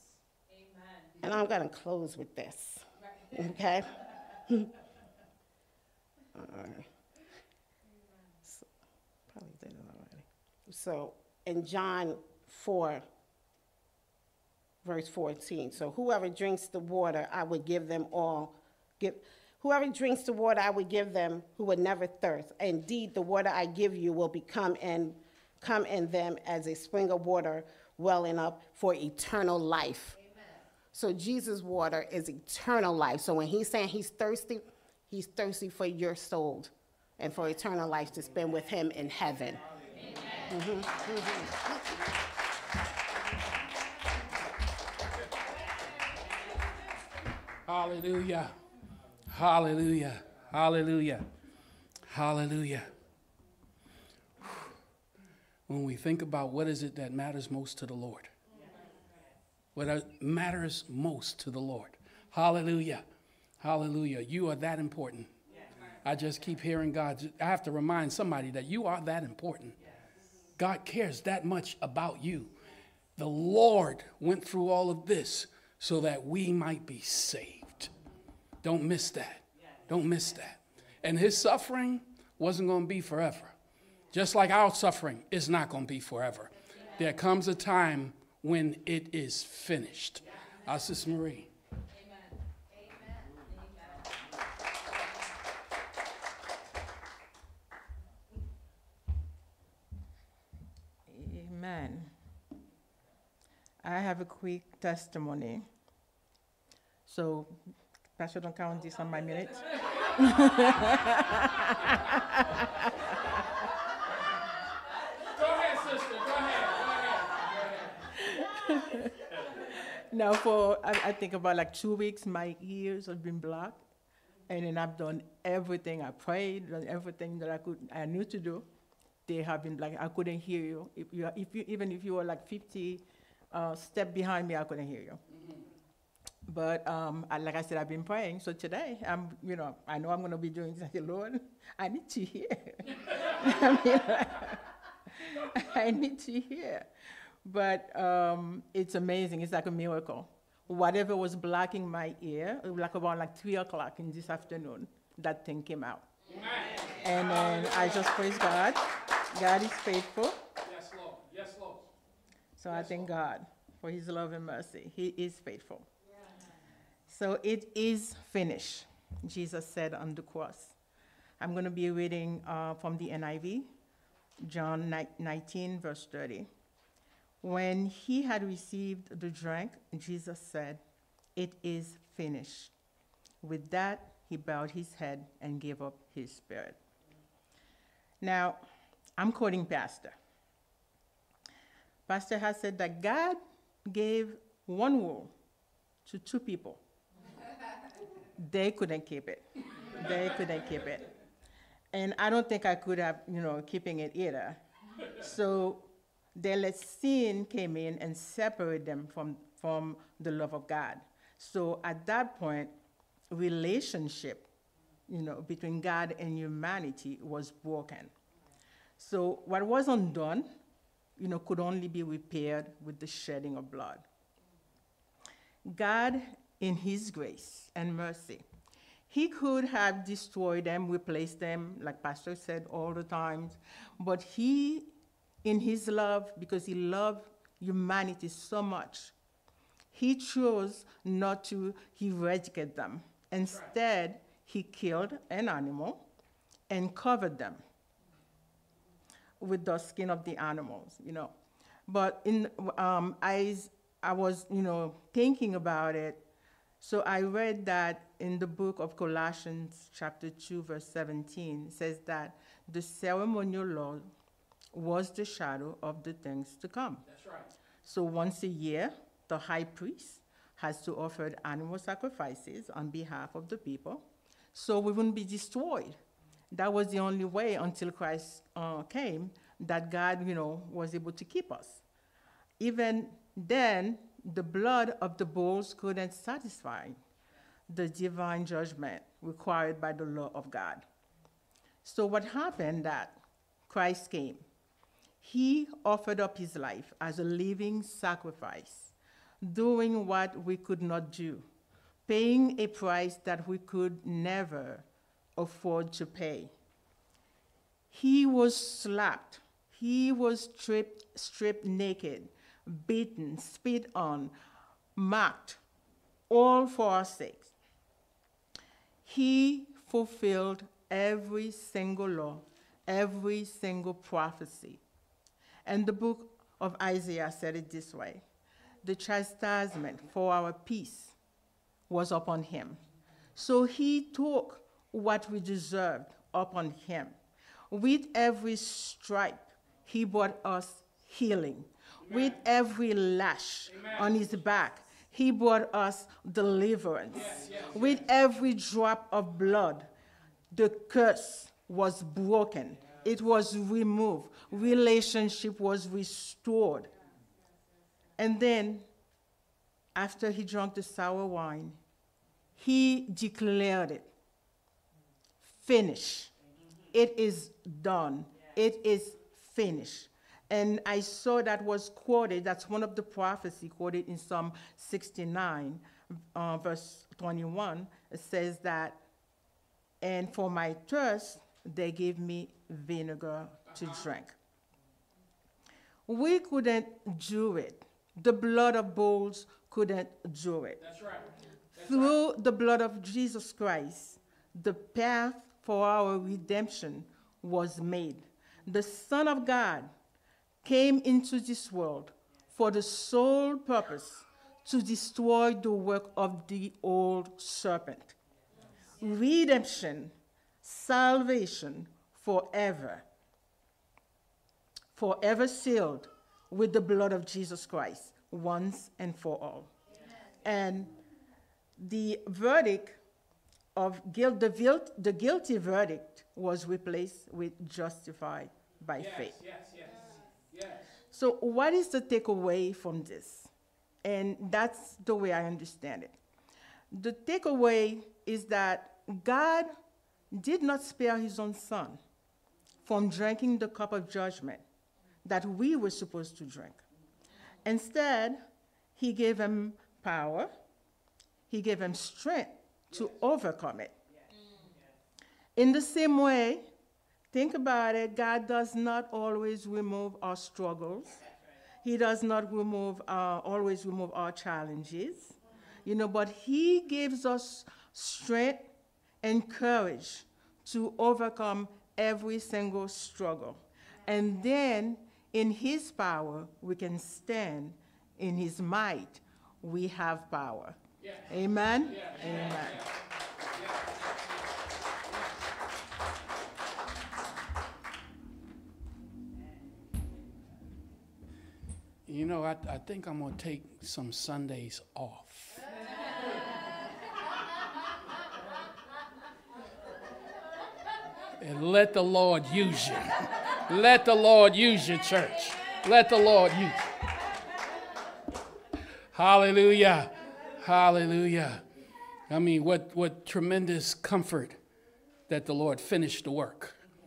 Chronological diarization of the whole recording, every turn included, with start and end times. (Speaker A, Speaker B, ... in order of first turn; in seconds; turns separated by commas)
Speaker A: 1.2-3.9, Speaker A: 6.3-6.9, Speaker A: 9.3-13.1, Speaker A: 14.8-30.2, Speaker A: 30.9-39.6, Speaker A: 40.5-41.6, Speaker B: 47.7-48.5, Speaker B: 49.3-51.3, Speaker B: 52.1-52.9, Speaker B: 55.7-58.3, Speaker B: 59.8-63.0, Speaker B: 63.6-65.3, Speaker B: 66.0-69.8, Speaker B: 70.6-72.5, Speaker B: 73.2-77.9, Speaker B: 78.6-83.5, Speaker B: 84.1-91.5, Speaker C: 101.1-102.1, Speaker C: 103.8-105.7, Speaker C: 107.1-107.5, Speaker C: 108.2-109.6, Speaker C: 110.2-112.7, Speaker B: 115.4-117.5, Speaker C: 118.3-119.1, Speaker C: 120.1-123.8, Speaker C: 124.5-128.7, Speaker C: 129.3-135.2, Speaker C: 136.5-144.6, Speaker C: 145.5-146.9, Speaker C: 147.4-156.1, Speaker B: 156.3-156.8, Speaker C: 157.0-158.8, Speaker B: 157.5-157.9, Speaker C: 159.3-160.4, Speaker B: 160.7-161.8, Speaker C: 162.6-165.9, Speaker B: 162.7-163.1, Speaker C: 167.1-170.7, Speaker C: 171.4-173.7, Speaker C: 174.4-176.5, Speaker C: 177.4-180.8, Speaker C: 181.4-182.7, Speaker C: 183.4-186.8, Speaker C: 188.2-188.6, Speaker C: 189.2-190.1, Speaker C: 192.1-195.3, Speaker C: 196.1-196.8, Speaker C: 198.4-199.4, Speaker C: 200.0-201.1, Speaker C: 201.9-204.6, Speaker C: 205.2-212.7, Speaker C: 213.3-214.5, Speaker C: 215.1-218.1, Speaker C: 219.0-220.5, Speaker C: 221.2-224.0, Speaker C: 225.7-228.4, Speaker C: 229.1-234.9, Speaker C: 235.4-239.1, Speaker C: 239.9-246.0, Speaker C: 246.7-247.6, Speaker C: 249.4-251.3, Speaker C: 251.9-256.2, Speaker C: 256.8-264.1, Speaker C: 264.7-267.0, Speaker B: 267.1-267.5, Speaker C: 267.8-276.0, Speaker C: 276.5-281.8, Speaker C: 282.6-287.0, Speaker C: 287.7-290.8, Speaker C: 291.8-293.2, Speaker C: 293.7-294.4, Speaker C: 295.2-301.5, Speaker C: 302.1-304.9, Speaker C: 305.4-306.5, Speaker C: 307.9-314.3, Speaker C: 315.0-315.6, Speaker C: 316.3-317.5, Speaker C: 319.1-324.8, Speaker C: 325.7-328.2, Speaker C: 328.8-331.1, Speaker C: 331.9-332.8, Speaker C: 333.4-337.1, Speaker C: 337.7-349.9, Speaker B: 343.7-344.1, Speaker B: 347.2-347.8, Speaker C: 350.5-356.9, Speaker C: 358.2-358.9, Speaker C: 359.9-361.8, Speaker C: 362.6-364.1, Speaker C: 365.5-366.3, Speaker C: 366.9-375.8, Speaker C: 376.3-379.0, Speaker C: 380.0-384.3, Speaker C: 386.1-390.8, Speaker B: 390.8-391.2, Speaker C: 391.8-399.9, Speaker B: 391.8-392.1, Speaker C: 400.6-408.1, Speaker C: 409.0-413.0, Speaker C: 414.9-419.7, Speaker C: 420.4-420.9, Speaker C: 421.8-423.0, Speaker C: 423.8-429.4, Speaker B: 429.0-429.9, Speaker B: 430.5-430.8, Speaker C: 431.1-433.5, Speaker C: 434.0-436.2, Speaker C: 436.9-439.7, Speaker C: 440.3-442.0, Speaker C: 442.9-444.6, Speaker C: 445.2-446.8, Speaker C: 447.6-448.4, Speaker C: 449.0-450.5, Speaker C: 451.5-453.9, Speaker C: 455.6-456.6, Speaker C: 457.3-461.2, Speaker C: 461.8-468.7, Speaker C: 469.2-480.8, Speaker C: 481.3-482.8, Speaker B: 481.9-482.8, Speaker B: 492.1-495.5, Speaker B: 501.4-506.8, Speaker B: 509.1-511.6, Speaker B: 512.3-514.6, Speaker B: 515.3-516.8